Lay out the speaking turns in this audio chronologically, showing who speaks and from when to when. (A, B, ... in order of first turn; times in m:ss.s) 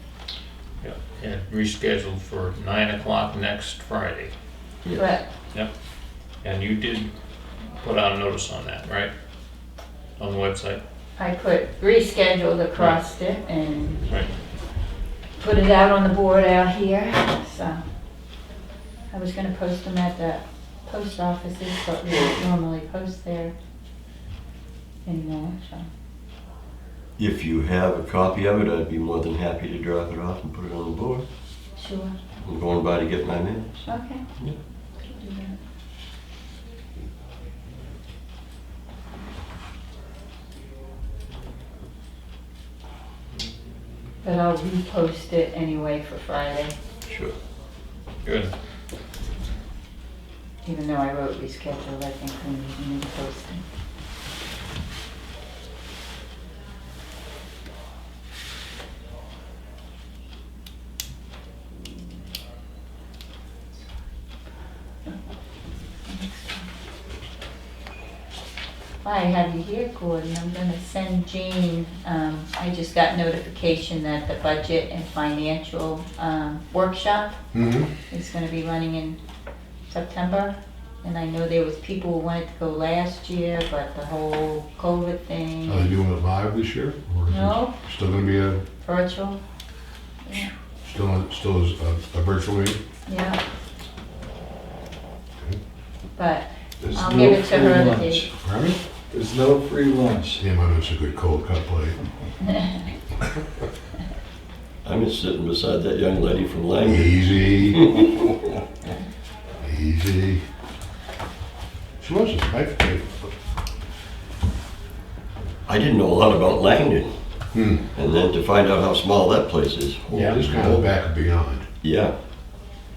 0:00.8-0:04.3 A
0:04.8-0:05.2 B
0:05.0-0:05.3 C
0:06.4-0:07.1 A
0:07.8-0:09.1 A
0:10.2-0:10.8 A
0:11.2-0:14.0 C
0:15.4-0:17.8 C
0:19.1-0:23.5 C
0:25.0-0:25.9 C
0:27.2-0:31.3 B
0:31.8-0:32.2 C
0:32.4-0:33.8 B
0:33.8-0:34.3 C
0:35.0-0:35.6 C
0:44.2-0:46.7 C
0:47.1-0:47.3 B
0:48.2-0:48.5 A
0:50.6-0:53.6 C
1:06.1-1:06.7 C
1:09.0-1:17.4 C
1:17.5-1:17.9 D
1:18.1-1:19.2 C
1:19.9-1:25.9 C
1:25.7-1:28.6 D
1:27.3-1:27.8 C
1:28.8-1:29.4 C
1:30.2-1:30.5 C
1:30.8-1:32.8 D
1:33.1-1:33.4 C
1:36.2-1:38.3 C
1:36.8-1:38.3 E
1:38.4-1:38.8 D
1:39.1-1:40.4 E
1:40.4-1:42.0 D
1:44.8-1:48.3 B
1:46.8-1:47.9 D
1:49.6-1:50.4 D
1:52.0-1:53.3 D
1:55.7-1:57.2 B
1:57.5-1:57.9 D
1:57.9-2:00.9 B
2:00.1-2:00.4 A
2:00.2-2:01.7 D
2:01.8-2:02.2 B